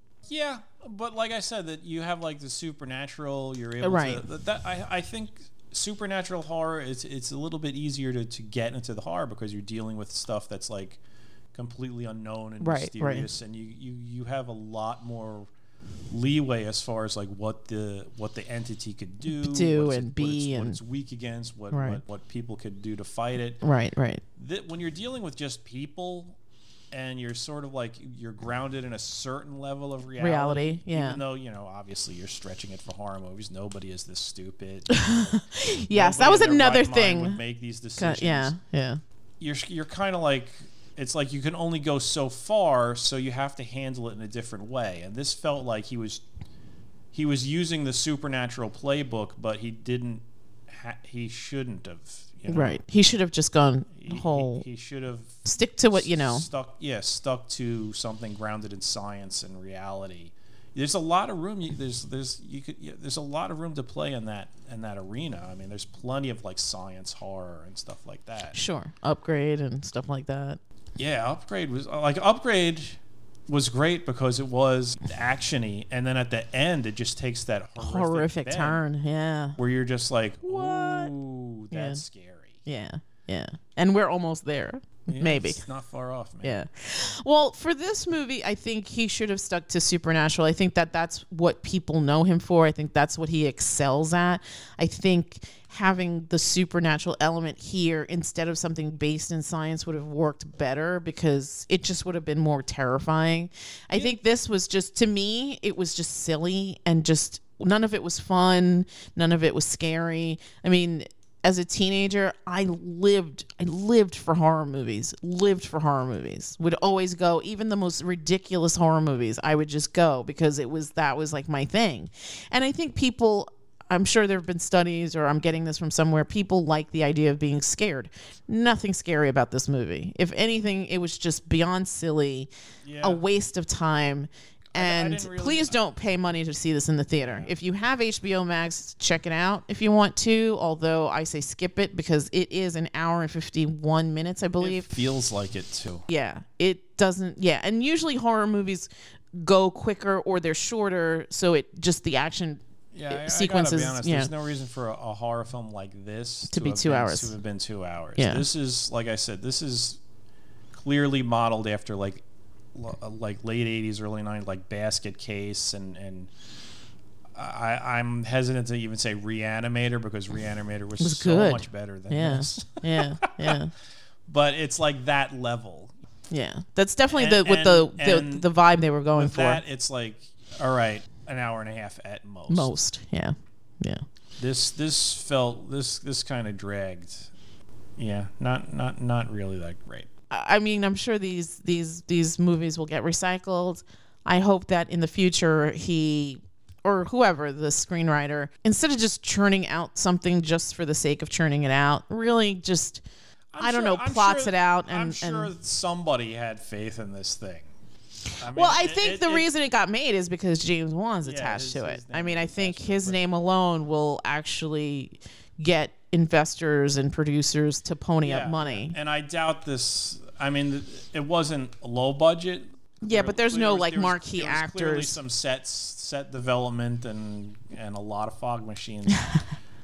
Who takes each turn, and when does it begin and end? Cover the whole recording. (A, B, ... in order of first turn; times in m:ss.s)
0:00.3-0:11.0 A
0:03.8-0:04.2 B
0:11.5-0:15.5 A
0:12.6-0:13.3 B
0:16.1-0:23.6 A
0:19.3-0:20.8 B
0:21.7-0:22.0 B
0:23.6-0:24.2 B
0:24.4-0:26.4 A
0:26.9-0:38.5 A
0:30.2-0:31.2 B
0:34.9-0:37.4 B
0:38.0-0:39.0 B
0:39.4-0:46.2 A
0:47.1-0:52.8 A
0:52.5-0:54.6 B
0:54.0-1:08.6 A
0:55.5-0:56.5 B
1:08.5-1:10.6 B
1:11.0-1:18.8 A
1:17.8-1:19.6 B
1:19.6-1:22.6 A
1:20.5-1:21.1 B
1:21.7-1:22.0 B
1:22.6-1:25.6 B
1:25.1-1:26.6 A
1:26.4-2:12.5 B
1:43.9-1:44.2 A
2:12.8-2:13.2 A
2:13.0-2:25.0 B
2:14.7-2:15.8 A
2:17.2-2:17.5 A
2:24.6-2:26.0 A
2:26.1-2:34.3 B
2:32.9-2:40.0 A
2:36.5-2:37.3 B
2:38.2-2:38.4 B
2:40.7-2:46.3 A
2:47.4-2:53.6 A
2:51.0-2:53.7 B
2:54.3-2:56.0 A
2:56.3-2:59.6 B
2:57.1-2:58.5 A
2:59.2-3:02.7 A
3:02.5-3:04.0 B
3:04.4-3:07.3 A
3:08.0-3:10.1 A
3:10.3-3:23.0 B
3:23.5-3:27.7 A
3:23.6-3:25.5 B
3:28.4-3:29.5 A
3:28.5-3:39.0 B
3:31.2-3:33.2 A
3:38.2-3:49.3 A
3:43.0-3:45.2 B